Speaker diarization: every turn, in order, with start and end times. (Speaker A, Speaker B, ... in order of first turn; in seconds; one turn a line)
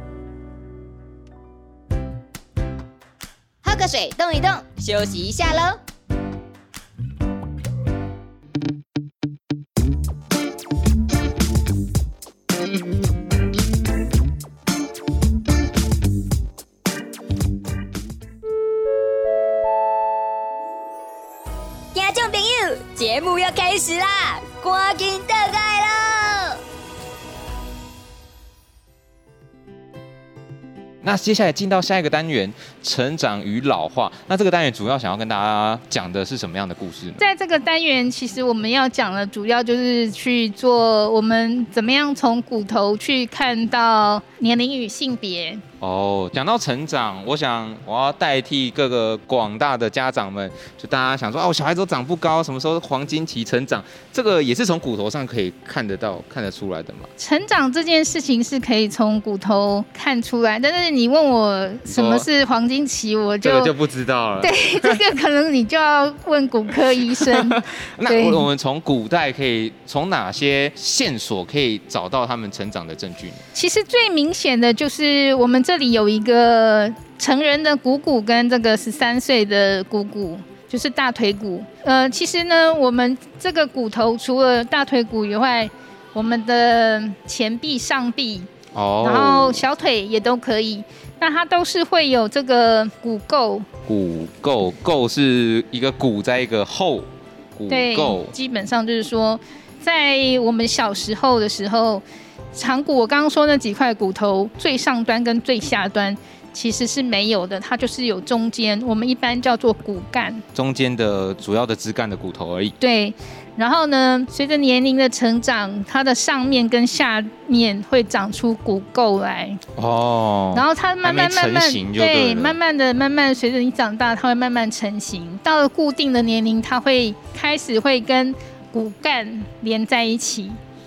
Speaker A: 3.6-5.8
Speaker A: 21.9-26.6
Speaker B: 31.0-37.2
Speaker C: 37.2-45.6
Speaker B: 45.8-57.1
Speaker C: 57.2-63.7
Speaker B: 61.9-62.3
Speaker B: 63.4-65.0
Speaker C: 64.4-68.5
Speaker B: 67.1-73.4
Speaker C: 73.5-88.5
Speaker B: 88.7-89.6
Speaker C: 89.0-93.7
Speaker B: 93.9-98.3
Speaker C: 97.7-110.4
Speaker B: 110.5-112.8
Speaker C: 112.8-119.6
Speaker B: 119.8-122.6
Speaker C: 120.5-130.6